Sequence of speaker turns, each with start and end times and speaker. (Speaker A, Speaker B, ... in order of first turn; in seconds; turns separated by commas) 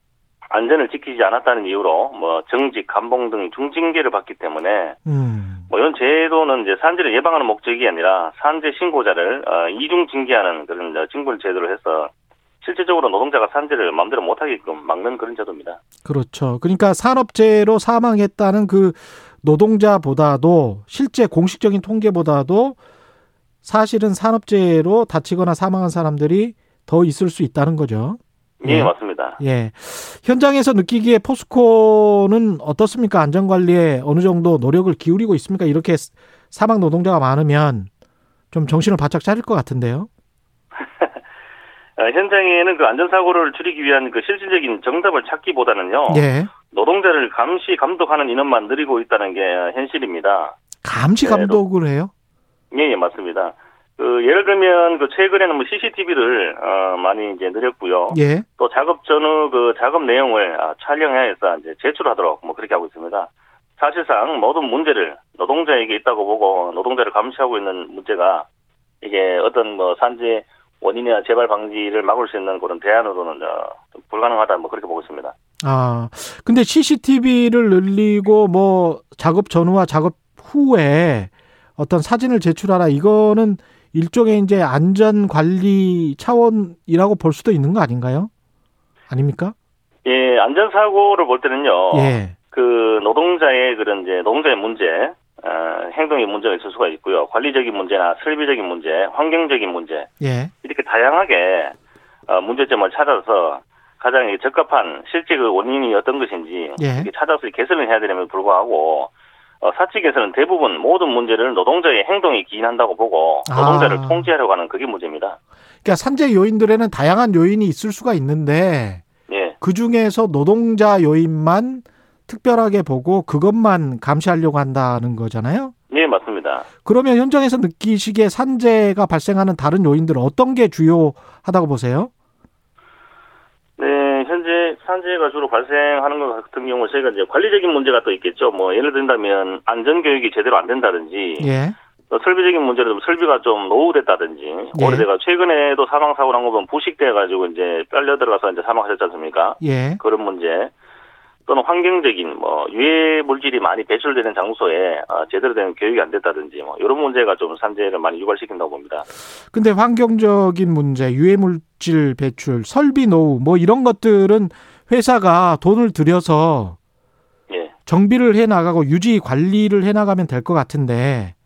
Speaker A: 0.5-5.0, Speaker B: 5.1-5.7, Speaker A: 5.7-12.1, Speaker A: 12.6-15.8, Speaker B: 16.1-22.8, Speaker B: 23.6-37.9, Speaker A: 28.6-29.4, Speaker B: 38.5-40.1, Speaker A: 40.8-41.2, Speaker A: 42.0-50.6, Speaker B: 46.1-46.5, Speaker B: 50.8-52.1, Speaker A: 51.2-51.6, Speaker A: 52.7-68.5, Speaker B: 58.1-58.5, Speaker A: 69.0-75.3, Speaker B: 75.6-88.3, Speaker B: 89.1-89.5, Speaker A: 90.0-100.1, Speaker B: 91.9-92.4, Speaker B: 100.2-100.5, Speaker A: 100.6-101.8, Speaker A: 102.3-115.4, Speaker B: 106.8-107.1, Speaker B: 113.5-114.3, Speaker B: 115.8-119.0, Speaker A: 119.3-119.6, Speaker B: 119.6-125.7, Speaker A: 125.9-126.7, Speaker B: 126.8-132.1, Speaker A: 133.8-141.5, Speaker B: 141.4-141.8, Speaker A: 142.1-150.7, Speaker B: 144.8-145.1, Speaker B: 149.6-150.0, Speaker A: 151.5-159.1, Speaker B: 159.5-166.8, Speaker A: 167.5-167.7, Speaker B: 167.9-171.3